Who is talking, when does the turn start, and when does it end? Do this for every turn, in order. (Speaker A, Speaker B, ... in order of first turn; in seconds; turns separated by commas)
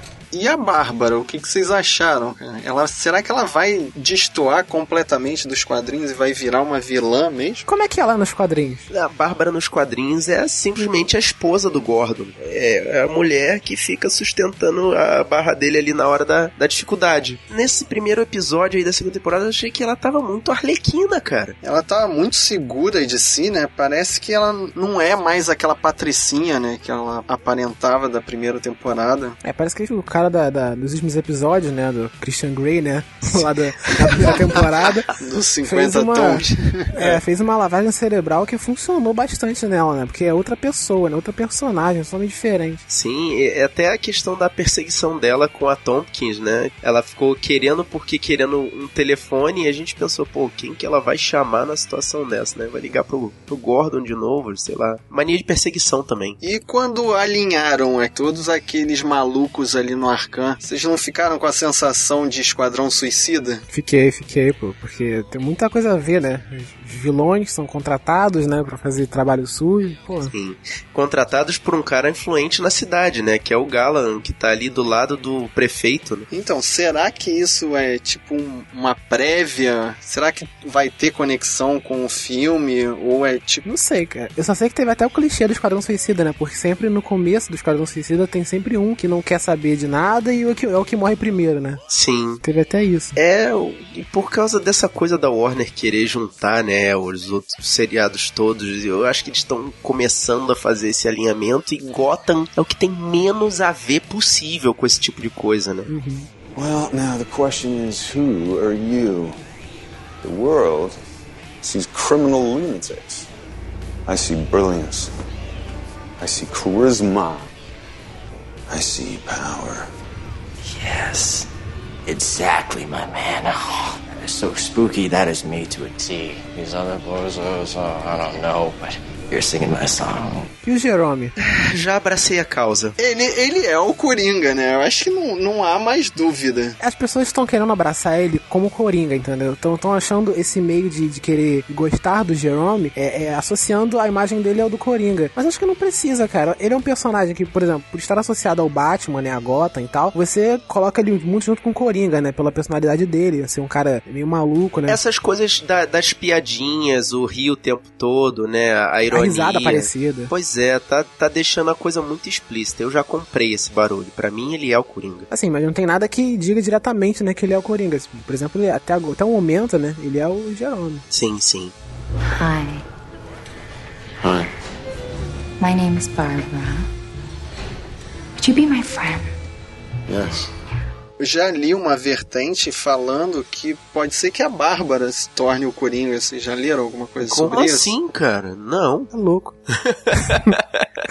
Speaker A: 0.3-7.7, Speaker B: 7.7-8.9, Speaker C: 8.9-21.6, Speaker A: 21.6-29.4, Speaker B: 29.4-35.1, Speaker A: 34.2-34.6, Speaker A: 35.2-37.2, Speaker B: 35.6-42.8, Speaker C: 42.9-56.4, Speaker A: 56.4-63.6, Speaker B: 63.7-70.3, Speaker C: 70.3-76.3, Speaker A: 76.3-83.7, Speaker B: 83.6-91.8, Speaker C: 91.9-92.4, Speaker B: 92.4-93.2, Speaker C: 93.2-105.9, Speaker B: 105.9-106.3, Speaker D: 106.6-109.4, Speaker D: 110.2-111.0, Speaker D: 111.6-113.3, Speaker D: 114.1-115.1, Speaker D: 116.2-117.5, Speaker D: 118.7-119.9, Speaker E: 120.7-121.5, Speaker E: 122.1-130.5, Speaker B: 130.6-131.3, Speaker C: 131.4-133.0, Speaker A: 133.0-136.8, Speaker B: 136.8-155.0, Speaker C: 154.9-165.3, Speaker B: 159.1-160.3, Speaker B: 165.3-171.1, Speaker C: 171.1-171.7, Speaker F: 172.4-172.8, Speaker F: 175.6-176.9, Speaker F: 178.4-179.3, Speaker A: 181.2-187.9, Speaker C: 187.2-189.1, Speaker B: 189.1-189.5